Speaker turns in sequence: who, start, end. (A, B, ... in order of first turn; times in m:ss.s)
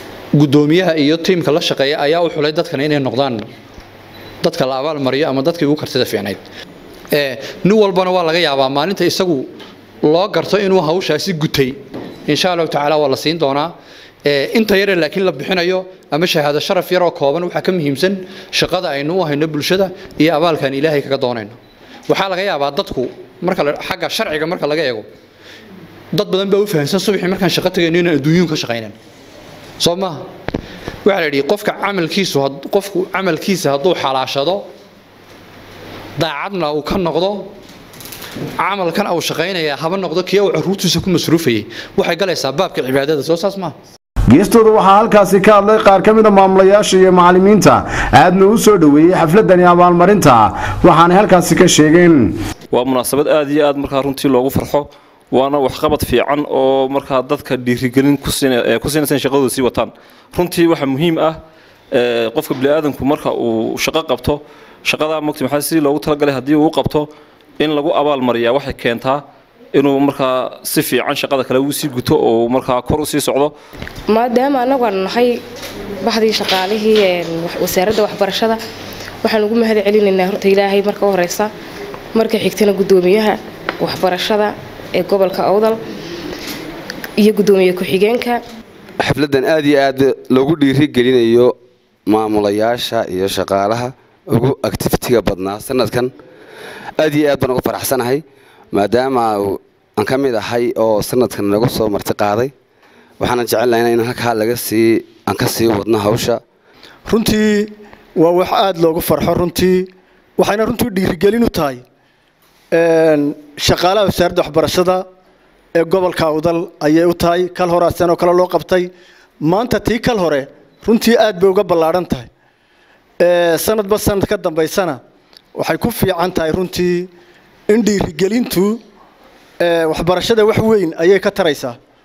0:00.4-0:03.4 A
0:04.4-0:06.4 A
0:07.1-0:09.5 A
0:10.0-0:13.7 A
0:14.2-0:21.6 A
0:22.1-0:25.1 A
0:26.1-0:29.0 A
0:29.8-0:30.2 A
0:31.0-0:34.6 A
0:36.2-0:37.5 A
0:38.6-0:43.7 A
0:44.3-0:52.3 B
0:52.7-1:01.4 C
1:01.9-1:07.1 C
1:07.6-1:13.5 C
1:14.2-1:15.4 D
1:16.1-1:18.6 D
1:19.2-1:21.5 D
1:22.2-1:25.8 D
1:27.2-1:28.4 D
1:29.0-1:31.6 E
1:32.1-1:36.1 E
1:37.0-1:42.5 E
1:43.2-1:46.4 E
1:47.1-1:51.8 F
1:52.7-1:55.0 F
1:55.8-1:58.9 F
1:59.4-2:02.3 F
2:03.2-2:05.0 F
2:05.6-2:07.1 F
2:07.7-2:08.8 F
2:09.6-2:11.8 F